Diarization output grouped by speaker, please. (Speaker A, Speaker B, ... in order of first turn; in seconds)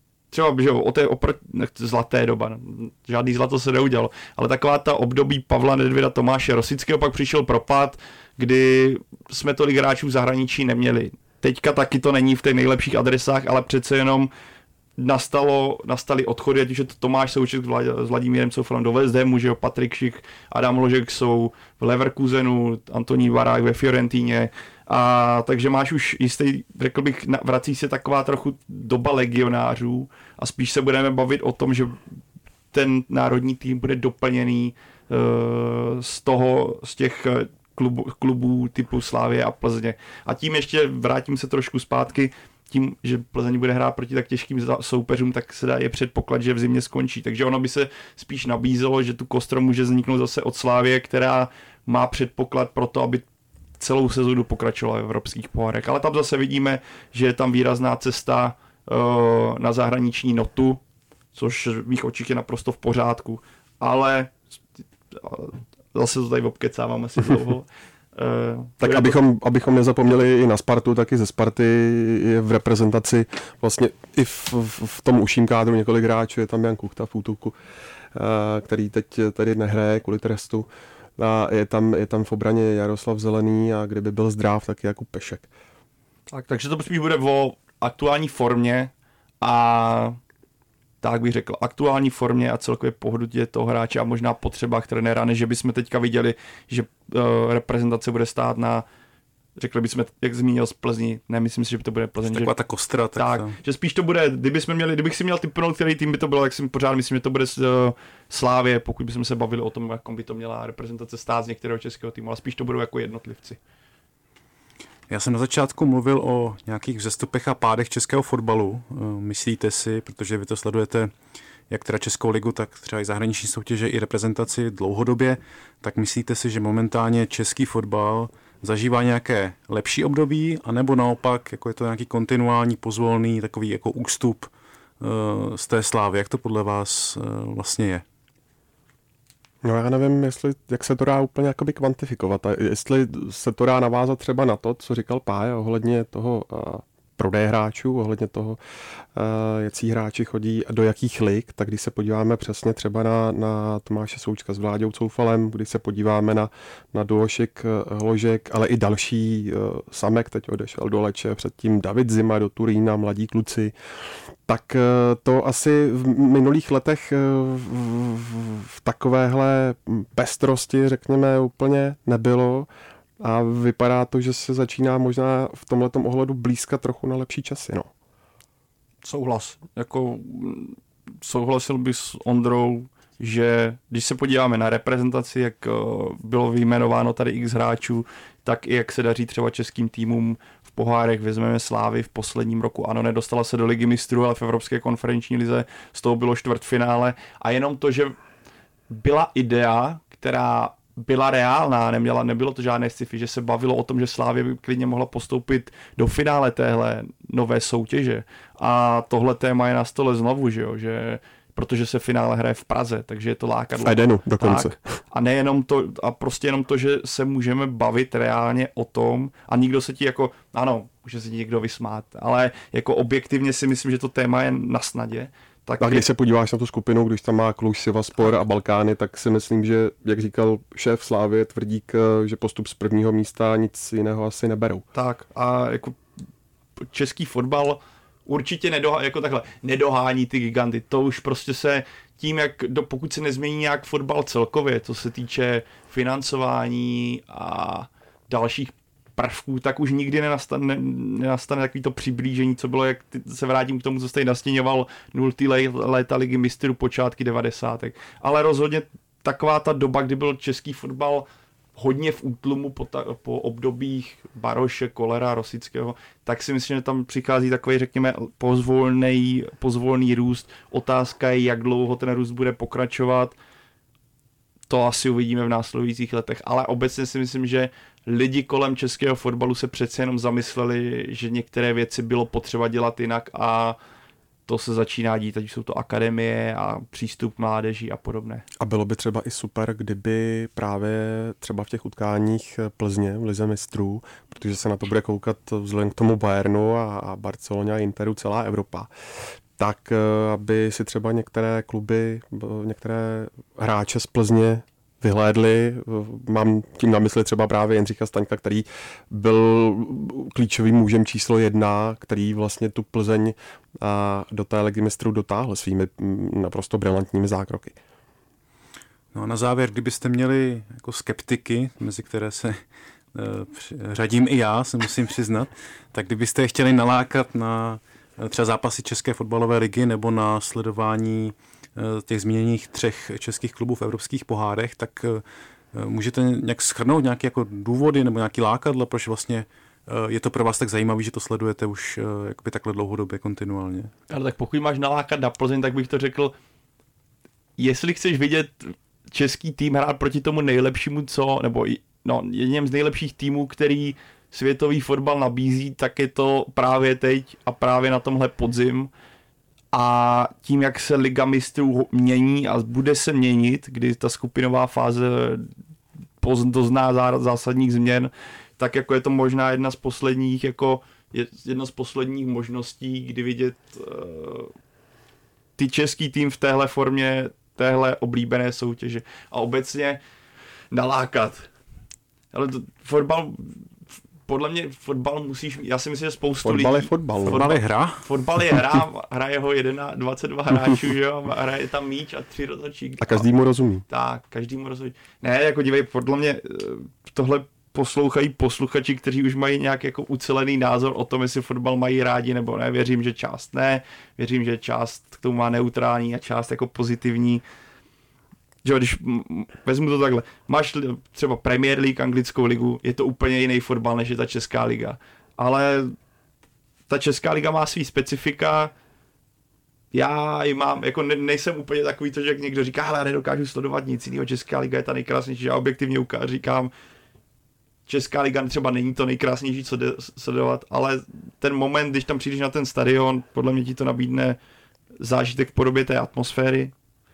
Speaker A: 0.3-14.3, 15.0-32.0, 32.7-53.2, 53.8-60.8, 61.3-64.4, 65.1-69.2, 86.3-90.2, 91.0-98.8, 99.6-102.5, 103.1-113.6, 179.0-198.2, 198.9-226.0, 234.9-236.0, 236.8-273.4, 274.7-283.8, 284.5-288.4, 344.1-346.3, 347.6-358.9, 359.7-365.5, 366.2-374.5, 375.6-380.0, 380.7-381.5, 382.3-383.6, 384.3-393.2, 393.9-407.4, 408.6-415.9, 416.9-418.7, 419.9-426.7, 427.9-434.4, 435.0-436.7
Speaker B: 68.8-77.5, 78.1-85.5, 139.6-148.6, 149.1-163.7, 164.4-172.7, 173.2-177.9, 213.8-214.8, 225.8-234.8, 288.6-298.9, 299.6-317.8, 386.4-387.4, 393.0-393.9
Speaker C: 102.2-103.5, 115.1-121.1, 121.7-134.5, 135.0-138.0, 319.1-322.6, 323.1-335.2, 335.7-343.9, 387.2-388.0